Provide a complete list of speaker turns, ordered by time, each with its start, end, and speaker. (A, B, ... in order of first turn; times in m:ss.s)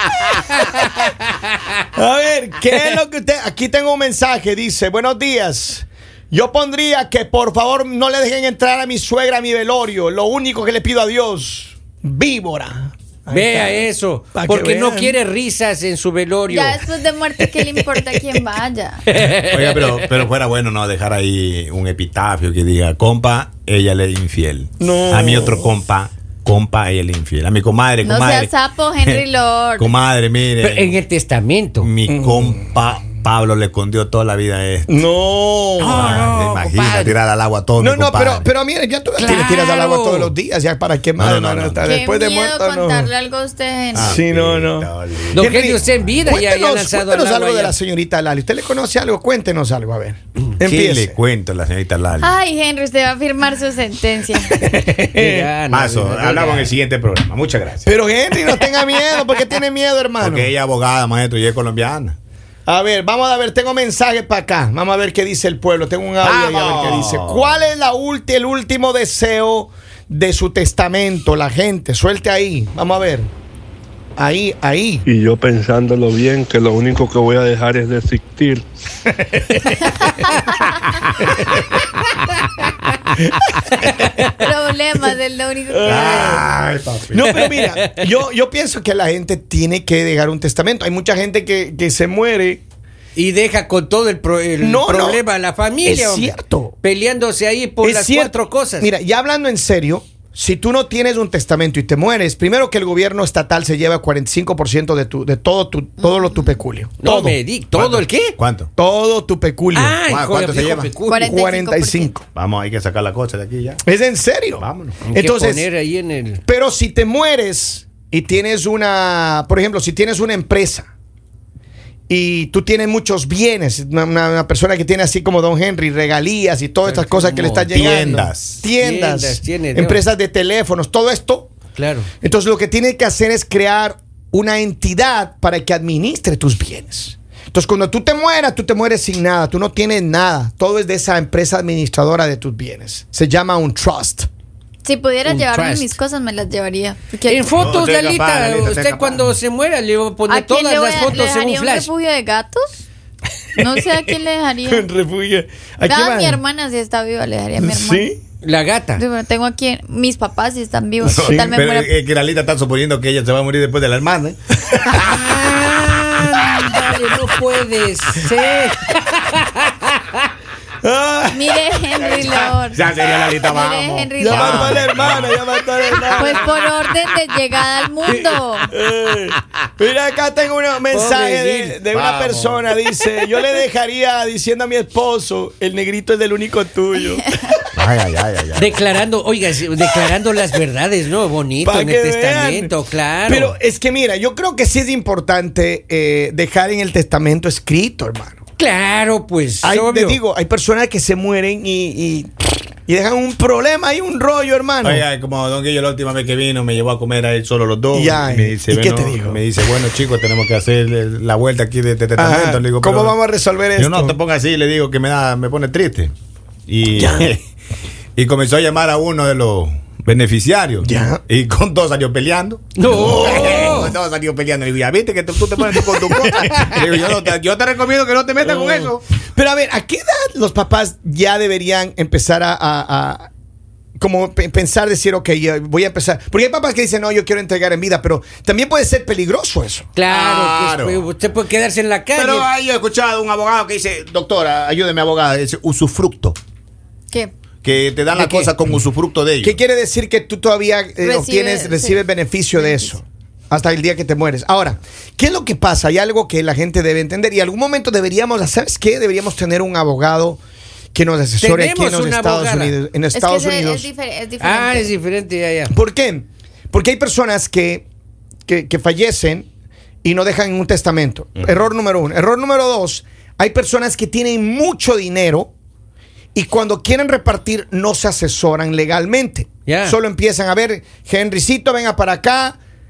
0:00.5-0:01.7 A
0:01.9-0:15.2 B
0:13.3-0:16.8 A
0:16.5-0:19.0 C
0:19.1-0:20.1 A
0:19.4-0:28.5 D
0:24.8-0:25.7 B
0:28.0-0:29.9 C
0:29.8-0:31.0 D
0:30.6-0:31.9 A
0:31.8-0:35.0 D
0:32.1-0:32.7 B
0:34.9-0:36.2 B
0:35.8-0:37.1 A
0:35.9-0:38.4 D
0:37.8-0:43.1 B
0:39.2-0:40.3 A
0:41.2-0:42.0 D
0:41.8-0:44.2 C
0:43.9-0:46.2 D
0:43.9-0:51.2 B
0:45.3-0:47.8 A
0:50.6-0:52.4 D
0:52.2-0:54.7 C
0:54.5-0:55.5 B
0:54.7-0:56.8 A
0:55.7-0:57.9 D
0:57.8-1:00.5 B
1:00.2-1:02.2 D
1:02.6-1:13.3 B
1:06.2-1:07.6 D
1:14.2-1:15.0 B
1:15.0-1:18.6 E
1:19.5-1:19.8 D
1:20.2-1:20.7 C
1:21.3-1:21.6 D
1:24.3-1:26.4 C
1:25.8-1:27.4 D
1:25.9-1:26.4 B
1:27.1-1:32.6 B
1:27.5-1:27.9 A
1:33.1-1:38.9 A
1:34.6-1:35.2 B
1:35.8-1:36.7 B
1:37.8-1:47.4 B
1:47.0-1:48.4 A
1:47.7-1:48.7 D
1:48.8-1:50.0 B
1:49.7-1:51.4 A
1:50.0-1:50.9 D
1:51.1-1:52.1 C
1:51.2-1:52.2 B
1:52.3-1:53.8 D
1:53.8-1:55.7 B
1:54.6-1:55.0 D
1:55.0-1:56.4 A
1:56.4-2:00.9 B
2:02.1-2:11.5 B
2:06.8-2:08.2 A
2:07.7-2:08.6 D
2:08.8-2:10.0 A
2:11.7-2:12.1 A
2:12.2-2:24.3 B
2:24.8-2:27.7 C
2:25.2-2:25.9 A
2:27.3-2:31.9 A
2:27.5-2:29.4 D
2:30.3-2:32.8 C
2:33.6-2:34.9 C
2:34.7-2:36.4 B
2:35.8-2:38.1 C
2:37.6-2:38.2 B
2:38.4-2:39.0 A
2:39.0-2:41.9 C
2:41.0-2:44.4 D
2:41.1-2:41.5 B
2:45.0-2:50.3 A
2:50.8-2:52.0 B
2:51.3-2:54.8 C
2:52.0-2:56.4 D
2:54.2-2:56.6 B
2:56.1-2:58.7 C
2:58.7-3:07.6 B
3:00.9-3:01.8 A
3:01.9-3:02.8 D
3:07.7-3:08.8 D
3:08.5-3:13.5 A
3:11.6-3:12.7 B
3:13.3-3:18.4 B
3:18.6-3:20.2 A
3:19.6-3:25.0 B
3:24.8-3:33.2 D
3:27.9-3:29.4 B
3:32.2-3:34.2 B
3:33.8-3:36.1 D
3:36.7-3:37.4 D
3:36.9-3:37.3 B
3:38.2-3:49.1 D
3:40.8-3:41.2 B
3:42.8-3:43.9 A
3:43.0-3:43.6 B
3:45.9-3:46.3 B
3:48.4-3:53.3 B
3:54.0-3:59.9 B
4:00.0-4:02.5 A
4:00.1-4:01.1 D
4:02.1-4:06.4 D
4:07.6-4:09.6 D
4:08.1-4:08.5 A
4:09.4-4:20.4 B
4:11.0-4:13.0 C
4:20.9-4:23.9 B
4:21.4-4:22.8 A
4:23.1-4:24.9 C
4:24.4-4:25.7 A
4:25.7-4:27.8 B
4:28.5-4:29.5 B
4:30.0-4:35.5 B
4:36.3-4:42.6 B
4:39.6-4:40.0 A